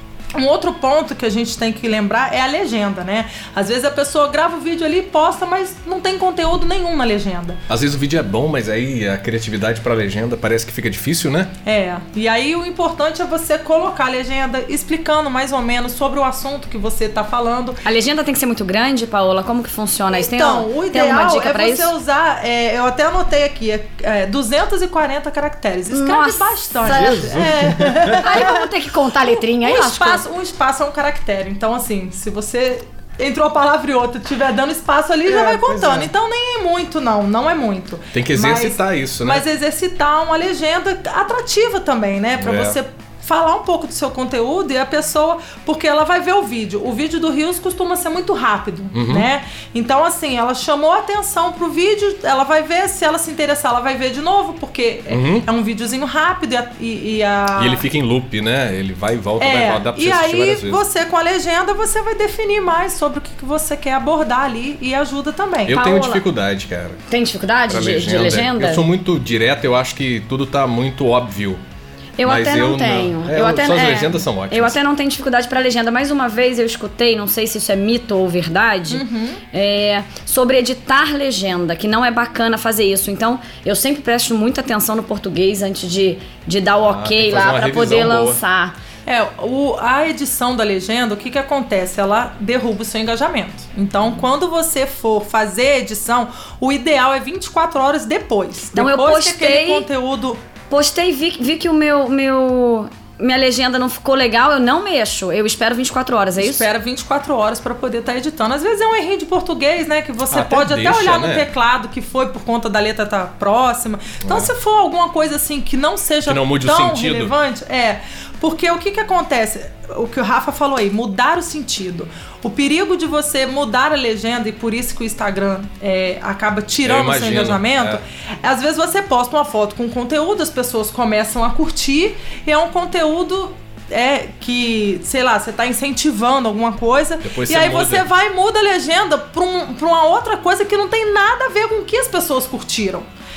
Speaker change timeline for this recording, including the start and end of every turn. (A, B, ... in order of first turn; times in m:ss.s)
0:00.4-0:07.6 A
0:07.7-0:11.5 B
0:11.6-0:17.8 A
0:17.8-0:21.9 C
0:20.1-0:28.7 A
0:25.9-0:27.3 C
0:26.8-0:28.5 B
0:28.2-0:30.2 C
0:29.6-0:57.8 A
0:35.3-0:36.1 B
0:38.1-0:39.4 B
0:42.4-0:42.8 B
0:48.9-0:49.3 B
0:55.1-0:55.4 B
0:57.6-1:00.8 B
0:59.4-1:05.8 A
1:05.7-1:07.0 B
1:05.7-1:06.2 C
1:07.1-1:08.9 C
1:07.7-1:11.6 B
1:12.2-1:28.7 C
1:12.2-1:14.8 B
1:18.9-1:19.4 A
1:26.8-1:28.4 B
1:29.0-1:40.4 A
1:38.7-1:39.8 C
1:40.7-1:46.7 C
1:46.4-2:23.1 A
1:50.3-1:51.5 B
1:54.2-1:54.5 B
1:56.2-1:57.3 B
2:06.8-2:08.0 B
2:17.2-2:18.0 B